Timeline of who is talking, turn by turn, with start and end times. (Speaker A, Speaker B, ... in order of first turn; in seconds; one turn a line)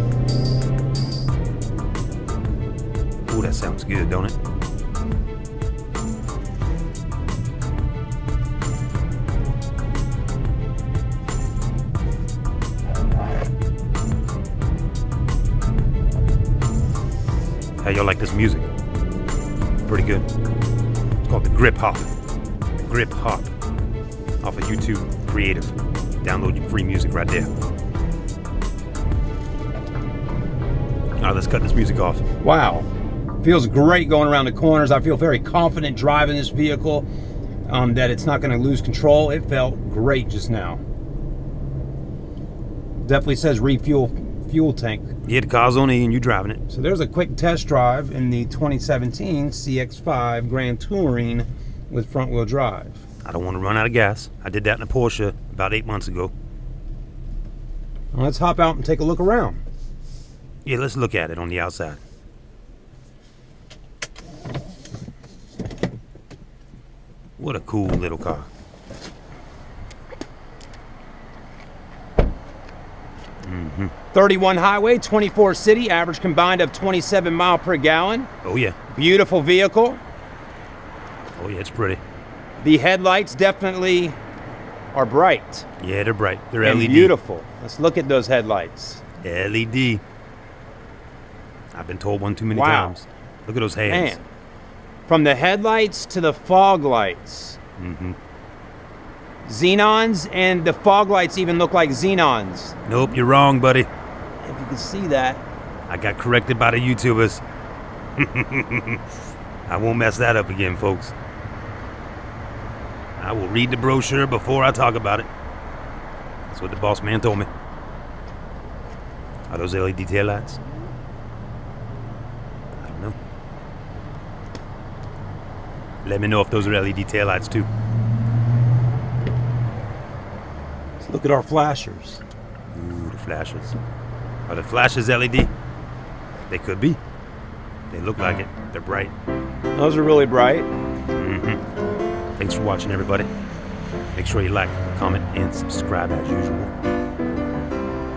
Speaker A: 3.2-4.3
Speaker A: 17.8-18.7
Speaker A: 19.9-20.3
Speaker A: 21.2-22.1
Speaker A: 22.8-23.5
Speaker A: 24.4-27.5
Speaker A: 31.2-32.2
Speaker B: 32.4-32.9
Speaker B: 33.4-37.1
Speaker B: 37.7-40.8
Speaker B: 43.0-45.1
Speaker A: 45.2-46.6
Speaker B: 46.7-53.0
Speaker A: 53.2-56.3
Speaker B: 58.1-59.6
Speaker A: 60.6-62.0
Speaker A: 67.4-68.5
Speaker A: 73.4-73.9
Speaker B: 74.1-78.3
Speaker A: 78.4-78.8
Speaker B: 78.9-80.0
Speaker A: 81.3-82.0
Speaker B: 82.6-84.2
Speaker B: 84.9-85.7
Speaker A: 85.8-87.1
Speaker B: 86.6-89.0
Speaker A: 89.2-90.0
Speaker A: 91.7-94.2
Speaker B: 92.5-93.0
Speaker B: 93.9-94.3
Speaker B: 95.1-97.6
Speaker A: 97.8-98.2
Speaker B: 99.4-102.8
Speaker A: 102.8-103.9
Speaker B: 104.4-105.4
Speaker A: 105.9-107.4
Speaker A: 108.2-109.0
Speaker A: 109.7-111.1
Speaker A: 113.2-115.3
Speaker A: 116.5-117.5
Speaker A: 119.5-120.6
Speaker A: 122.8-123.2
Speaker A: 126.0-127.7
Speaker B: 131.0-132.2
Speaker A: 132.7-133.8
Speaker A: 134.5-135.5
Speaker A: 136.5-137.0
Speaker A: 137.9-139.1
Speaker B: 139.7-140.7
Speaker A: 141.1-141.6
Speaker A: 142.4-143.3
Speaker A: 144.1-146.7